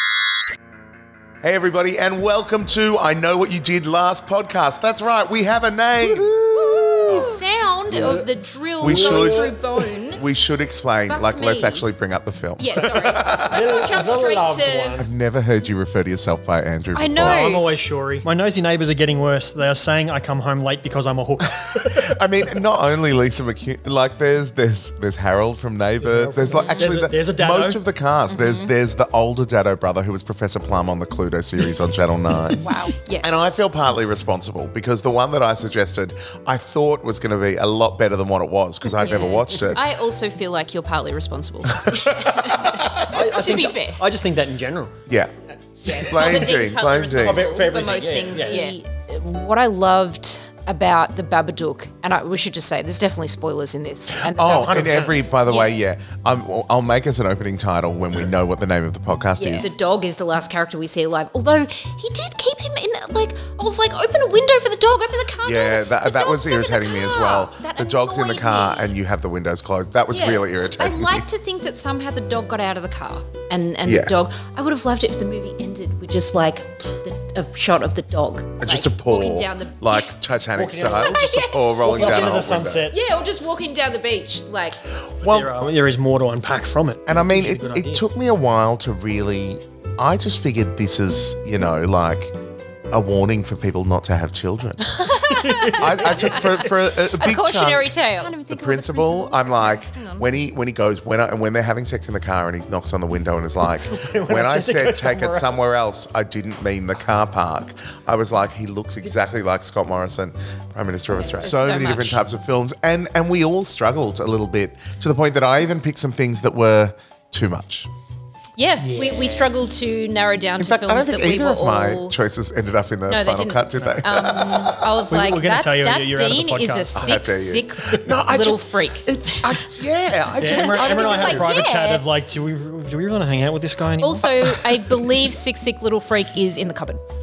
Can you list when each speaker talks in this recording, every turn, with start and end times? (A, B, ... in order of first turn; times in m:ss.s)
0:01.4-0:06.3 A
0:06.0-0:07.3 B
0:06.7-0:10.2 C
0:07.9-0:08.2 A
0:07.9-0:08.2 B
0:08.8-0:09.5 A
0:08.8-0:09.6 B
0:10.1-0:14.0 A
0:11.1-0:11.9 C
0:12.6-0:15.0 C
0:13.5-0:15.1 B
0:15.0-0:17.4 A
0:16.9-0:17.7 C
0:17.2-0:22.0 B
0:21.5-0:32.6 A
0:26.0-0:27.8 B
0:26.5-0:26.9 C
0:28.3-0:28.7 C
0:32.6-0:33.3 C
0:33.2-0:39.8 A
0:39.0-0:44.0 C
0:43.0-0:44.9 B
0:45.8-0:46.5 B
0:45.9-0:55.8 C
0:45.9-0:47.5 A
0:47.2-0:48.8 B
0:54.2-0:59.7 A
0:54.4-0:55.2 B
0:59.4-1:09.0 C
1:05.4-1:11.2 A
1:10.1-1:20.1 C
1:13.8-1:14.1 A
1:18.6-1:22.9 A
1:20.6-1:21.2 B
1:20.8-1:24.8 C
1:21.8-1:23.0 B
1:25.2-1:25.6 A
1:25.2-1:28.0 B
1:27.1-1:32.3 A
1:32.9-1:34.9 A
1:35.0-1:40.3 C
1:35.3-1:36.6 B
1:35.7-1:57.9 A
1:43.8-1:45.6 B
1:51.4-1:52.2 C
1:58.6-2:02.2 C
1:58.8-1:59.5 B
2:00.6-2:04.9 A
2:03.1-2:09.6 C
2:05.0-2:07.2 B
2:06.9-2:11.6 A
2:10.4-2:15.2 B
2:10.4-2:12.1 C
2:14.0-2:17.0 C